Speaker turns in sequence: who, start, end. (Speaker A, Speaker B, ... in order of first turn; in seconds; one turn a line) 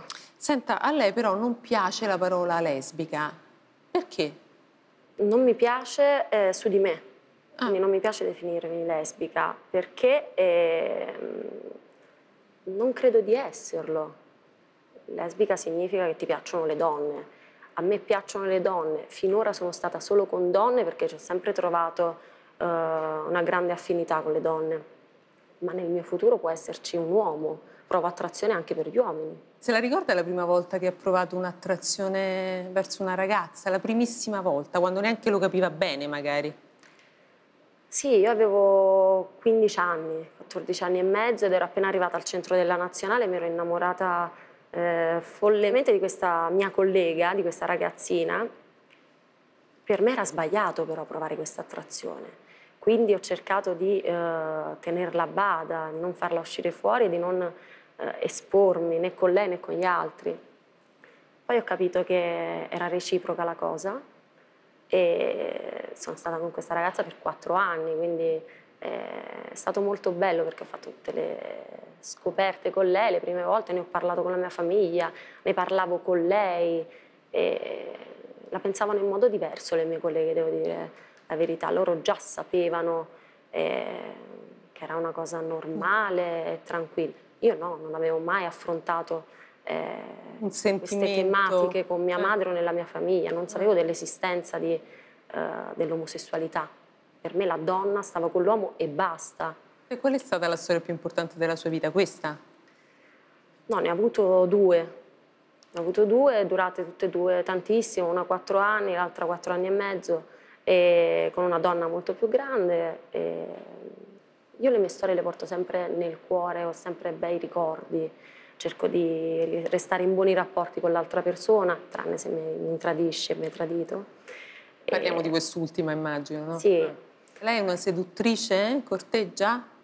Speaker A: 0.4-3.3
Speaker A: 3.9-4.3
Speaker B: 5.2-7.0
Speaker B: 7.6-11.7
Speaker B: 12.7-14.2
Speaker B: 15.1-24.8
Speaker B: 25.6-29.4
Speaker A: 29.6-36.5
Speaker B: 37.9-48.5
Speaker B: 49.9-60.4
Speaker B: 61.5-64.0
Speaker B: 64.9-96.7
Speaker A: 90.4-91.8
Speaker B: 97.2-99.5
Speaker A: 99.9-102.4
Speaker B: 103.7-104.9
Speaker B: 105.7-114.0
Speaker B: 114.6-124.1
Speaker B: 124.9-125.3
Speaker A: 124.9-129.7
Speaker B: 126.6-127.0